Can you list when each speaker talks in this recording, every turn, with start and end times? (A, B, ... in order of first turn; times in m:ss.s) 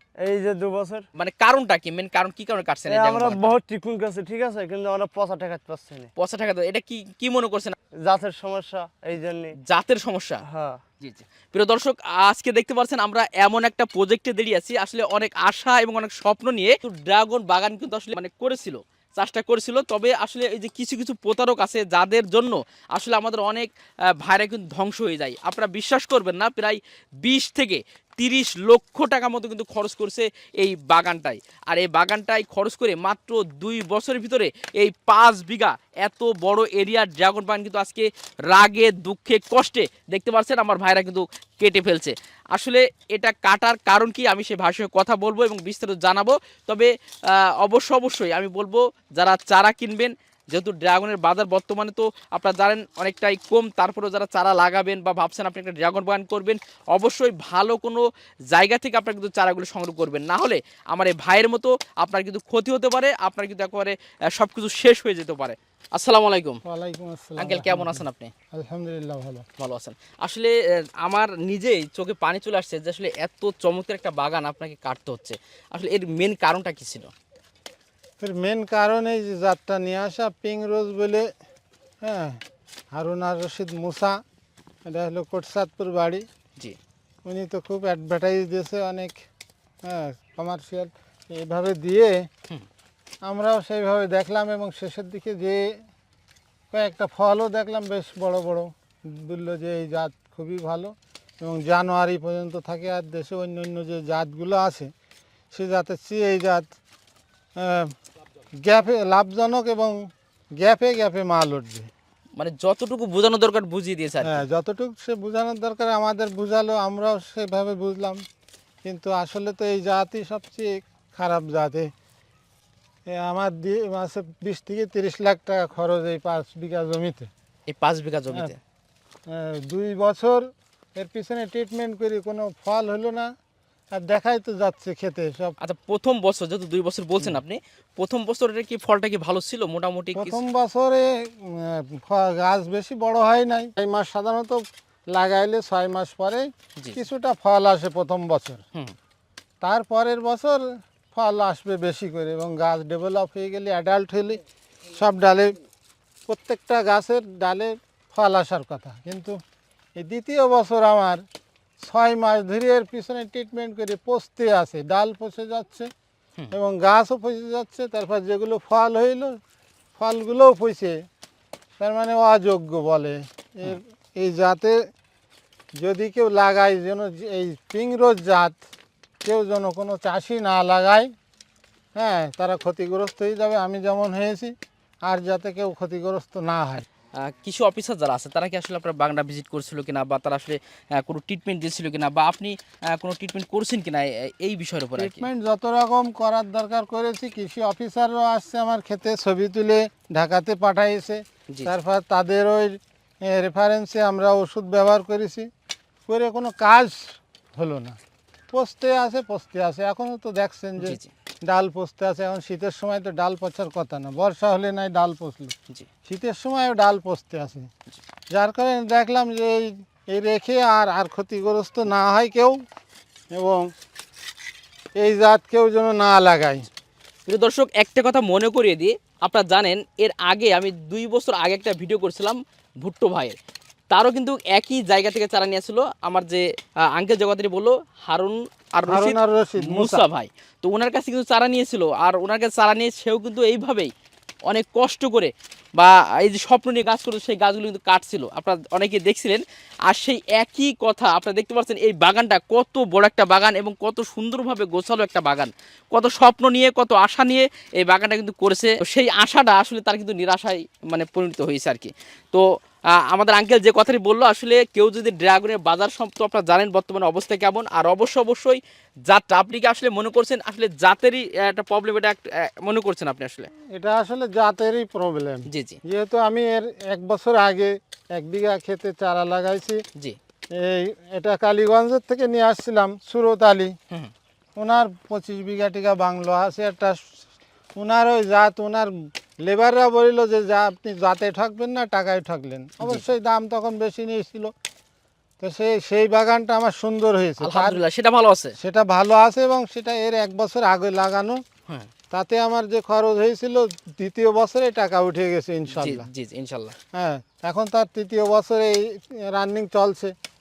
0:00.2-0:01.0 A
0:01.2-0:03.6 B
0:02.9-0:06.1 A
0:06.2-0:07.8 B
0:08.0-0:09.6 A
0:09.6-0:10.4 B
0:10.5-0:10.8 A
0:11.0-1:06.6 B
1:06.6-1:09.4 C
1:07.4-1:08.3 B
1:09.6-1:17.1 B
1:18.2-1:21.3 C
1:22.0-1:22.4 C
1:23.0-1:24.2 C
1:24.9-1:26.2 C
1:27.2-1:29.2 C
1:29.9-1:32.2 C
1:33.2-1:35.6 C
1:36.7-1:44.9 C
1:45.5-1:46.7 C
1:47.6-1:47.9 C
1:48.6-1:50.0 C
1:50.6-1:51.9 C
1:52.4-1:54.4 B
1:54.2-1:58.2 C
1:58.9-2:01.9 C
2:03.2-2:07.3 C
2:07.7-2:08.6 B
2:09.3-2:10.4 C
2:11.0-2:13.3 C
2:13.9-2:15.6 C
2:15.6-2:20.4 B
2:20.2-2:24.6 C
2:25.1-2:28.6 C
2:26.8-2:27.0 B
2:29.6-2:35.5 C
2:36.3-2:39.4 C
2:40.0-2:41.2 C
2:41.8-2:45.9 C
2:46.5-2:49.4 C
2:50.0-2:51.0 C
2:51.8-2:54.8 C
2:55.8-2:58.6 C
2:59.2-3:01.1 C
3:02.0-3:04.5 C
3:05.1-3:06.8 C
3:07.2-3:15.3 B
3:15.0-3:25.5 C
3:26.1-3:28.0 C
3:28.5-3:35.5 C
3:30.8-3:31.1 B
3:36.1-3:37.7 C
3:38.3-3:42.6 C
3:43.3-3:43.6 C
3:45.0-3:46.7 C
3:47.3-3:53.4 B
3:53.9-3:56.4 B
3:57.0-4:03.9 B
3:58.9-4:00.1 C
4:04.5-4:22.4 B
4:23.0-4:33.5 B
4:33.8-4:39.8 C
4:35.5-4:35.8 B
4:40.6-4:43.7 C
4:44.6-4:47.0 C
4:47.8-4:48.9 C
4:49.4-4:54.5 C
4:52.8-4:53.1 B
4:55.4-4:57.8 C
4:57.4-4:58.6 B
4:58.6-5:01.4 C
5:02.1-5:06.1 C
5:05.8-5:06.8 B
5:07.0-5:10.1 C